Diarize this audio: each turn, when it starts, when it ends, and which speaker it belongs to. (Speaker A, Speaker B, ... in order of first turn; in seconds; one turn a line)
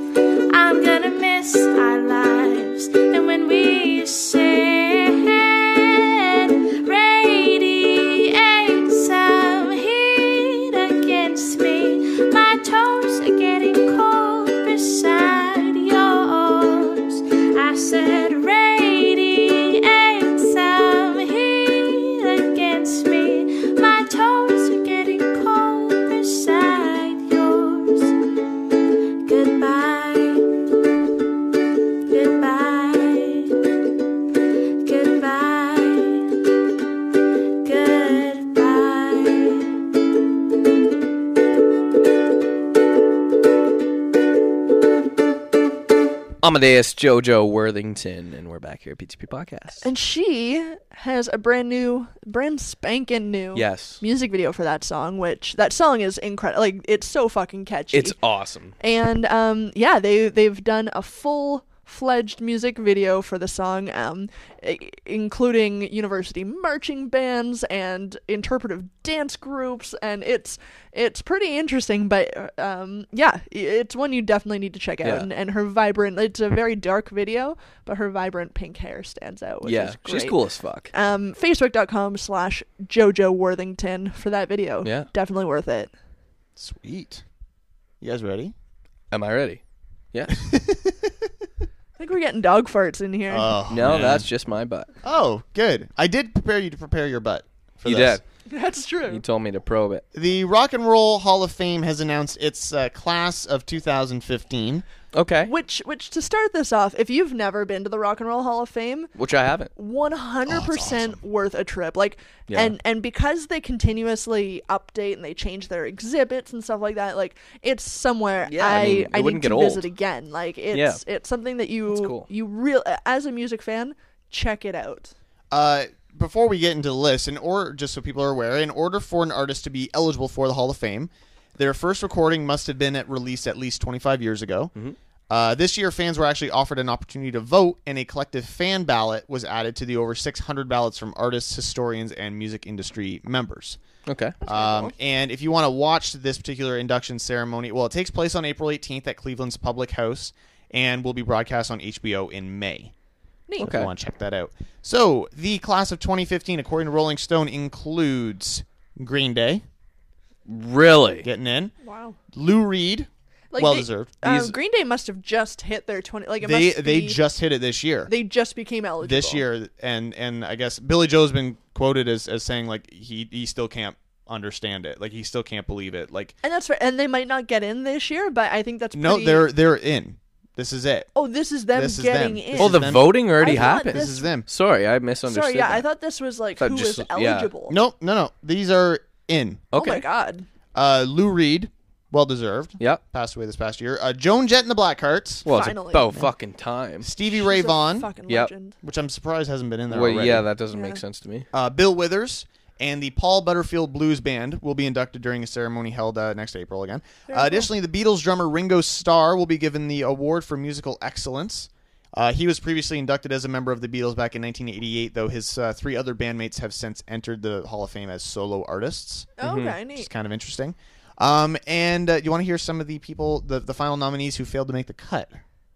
Speaker A: 0.5-28.1
Speaker A: 29.2-30.4
Speaker A: 32.1-33.6
Speaker A: 34.8-36.2
Speaker A: 37.6-39.7
Speaker B: 46.4-49.9
Speaker C: 49.8-58.2
Speaker B: 53.5-54.0
Speaker B: 57.9-58.7
Speaker C: 58.8-80.4
Speaker B: 75.0-75.3
Speaker B: 79.6-80.9
Speaker C: 80.9-85.9
Speaker B: 84.8-85.1
Speaker D: 86.6-87.2
Speaker D: 88.0-88.5
Speaker B: 89.1-89.6
Speaker B: 90.1-90.4
Speaker D: 90.4-91.1
Speaker C: 92.0-93.5
Speaker D: 93.3-94.3
Speaker B: 93.7-94.9
Speaker D: 95.0-98.2
Speaker B: 97.8-98.2
Speaker C: 98.5-99.2
Speaker B: 99.1-100.0
Speaker D: 100.1-104.8
Speaker B: 105.1-105.5
Speaker C: 105.5-109.1
Speaker B: 109.2-109.7
Speaker C: 109.8-125.1
Speaker D: 110.5-111.2
Speaker B: 112.5-112.8
Speaker B: 118.4-119.9
Speaker B: 120.7-121.0
Speaker B: 121.9-122.3
Speaker D: 125.5-134.7
Speaker D: 135.3-143.8
Speaker B: 144.1-144.3
Speaker C: 144.4-144.9
Speaker D: 144.4-152.9
Speaker C: 153.5-153.8
Speaker D: 153.6-159.6
Speaker B: 153.6-153.9
Speaker B: 160.5-161.3
Speaker D: 161.2-161.7
Speaker C: 161.8-162.2
Speaker D: 162.3-164.5
Speaker C: 163.5-167.2
Speaker D: 166.4-168.1
Speaker C: 168.1-169.4
Speaker D: 169.0-176.3
Speaker C: 176.4-179.5
Speaker D: 178.9-181.1
Speaker C: 181.2-184.3
Speaker D: 181.7-184.5
Speaker B: 182.6-185.9
Speaker C: 185.2-187.8
Speaker B: 186.6-187.5
Speaker D: 187.7-189.6
Speaker B: 189.7-190.1
Speaker C: 189.7-190.4
Speaker D: 190.7-195.5
Speaker B: 195.4-197.1
Speaker C: 195.5-196.1
Speaker D: 197.0-198.1
Speaker C: 197.2-198.8
Speaker D: 198.8-200.5
Speaker B: 199.9-201.5
Speaker C: 200.7-201.0
Speaker D: 201.5-219.3
Speaker C: 207.3-207.7
Speaker C: 219.4-220.1
Speaker B: 219.4-219.8
Speaker D: 219.9-225.4